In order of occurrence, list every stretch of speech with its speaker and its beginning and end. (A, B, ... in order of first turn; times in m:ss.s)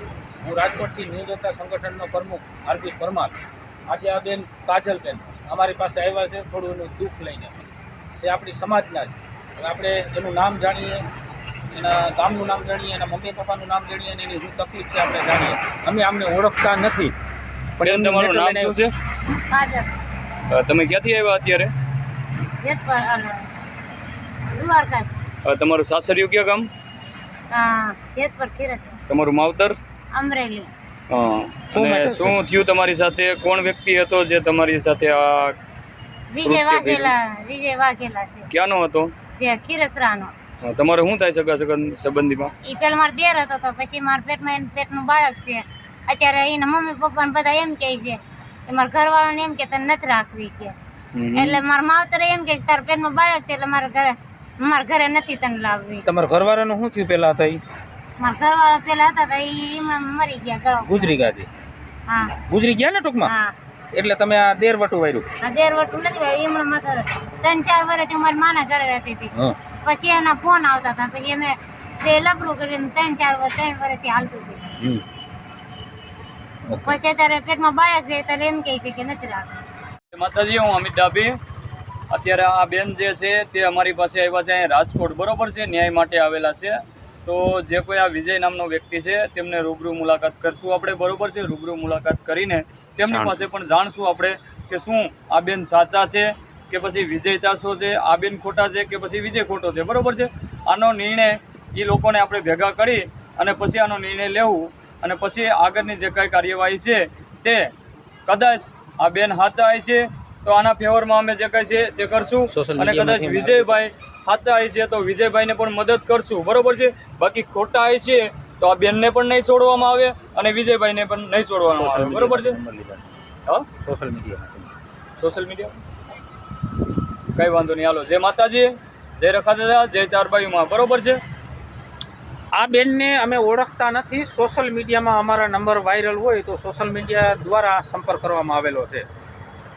0:00.4-0:03.4 A
0:03.9-0:07.6 A
0:08.1-0:11.1 A
0:11.7-0:17.1 A
0:17.8-0:18.8 A
0:17.8-0:18.9 B
0:19.5-0:19.9 C
0:20.5-0:21.7 B
0:22.6-0:23.5 C
0:24.5-0:25.1 C
0:25.4-0:26.7 B
0:27.5-0:29.0 C
0:29.1-0:29.8 B
0:30.1-0:30.7 C
0:31.1-0:35.6 B
0:31.7-0:32.4 A
0:36.3-0:38.5 C
0:36.4-0:37.1 B
0:38.5-0:39.1 B
0:39.4-0:40.3 C
0:40.6-0:42.5 B
0:42.6-0:50.8 C
0:51.2-0:51.6 B
0:51.4-0:56.1 C
0:56.0-0:57.6 A
0:58.2-1:01.2 C
1:00.8-1:01.5 A
1:02.1-1:02.3 C
1:02.4-1:03.3 A
1:03.2-1:03.5 C
1:03.9-1:05.3 A
1:05.4-1:14.8 C
1:16.7-1:17.0 A
1:16.9-1:19.6 C
1:20.1-1:21.4 B
1:22.1-1:47.7 B
1:48.3-2:02.6 B
1:52.5-1:53.8 A
2:01.7-2:03.1 A
2:03.8-2:04.7 A
2:05.2-2:05.8 B
2:07.3-2:11.2 B
2:12.5-2:19.1 A